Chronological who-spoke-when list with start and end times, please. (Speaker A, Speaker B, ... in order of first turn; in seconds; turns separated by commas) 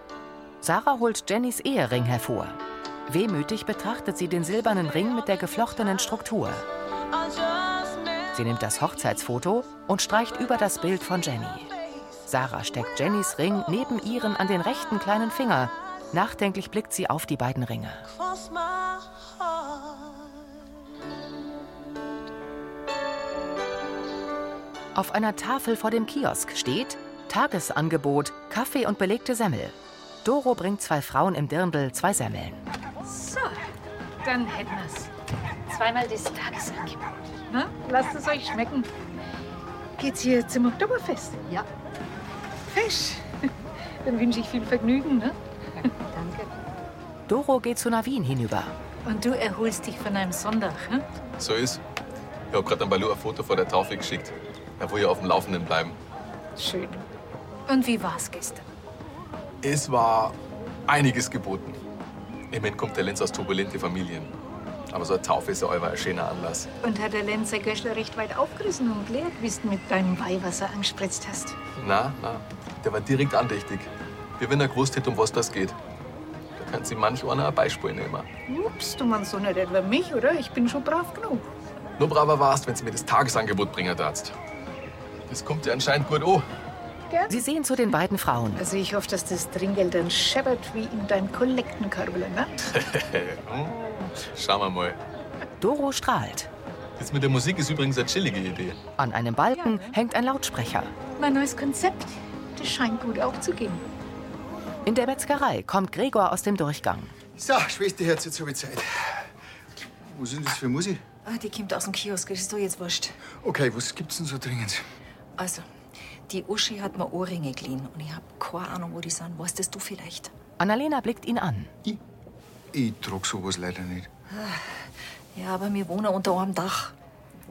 Speaker A: 0.6-6.7, Speaker A: 8.3-11.7, Speaker A: 12.3-18.0, Speaker A: 24.9-32.6, Speaker B: 33.0-33.6, Speaker B: 34.2-35.1, Speaker B: 35.7-38.9, Speaker B: 40.0-41.4, Speaker B: 42.7-43.5, Speaker B: 44.0-45.4, Speaker C: 46.1-46.5, Speaker A: 47.3-48.7, Speaker B: 49.0-51.0, Speaker D: 51.4-51.8, Speaker D: 52.5-56.0, Speaker B: 56.6-57.0, Speaker B: 57.7-58.6, Speaker D: 59.6-61.8, Speaker D: 62.5-64.3, Speaker D: 64.9-66.7, Speaker B: 66.8-71.6, Speaker D: 71.8-75.8, Speaker D: 76.5-78.3, Speaker B: 78.5-81.5, Speaker D: 82.0-84.3, Speaker D: 85.3-86.4, Speaker A: 87.3-88.6, Speaker B: 88.6-92.5, Speaker D: 92.7-95.0, Speaker A: 95.6-96.5, Speaker D: 97.0-98.8, Speaker A: 99.0-100.9, Speaker B: 101.2-103.8, Speaker A: 104.8-107.1, Speaker E: 107.3-109.3, Speaker E: 110.0-111.0, Speaker C: 111.2-113.2, Speaker E: 113.3-114.8, Speaker C: 115.4-115.7, Speaker C: 116.3-120.3, Speaker A: 120.6-121.7, Speaker E: 122.7-124.1, Speaker C: 124.3-126.9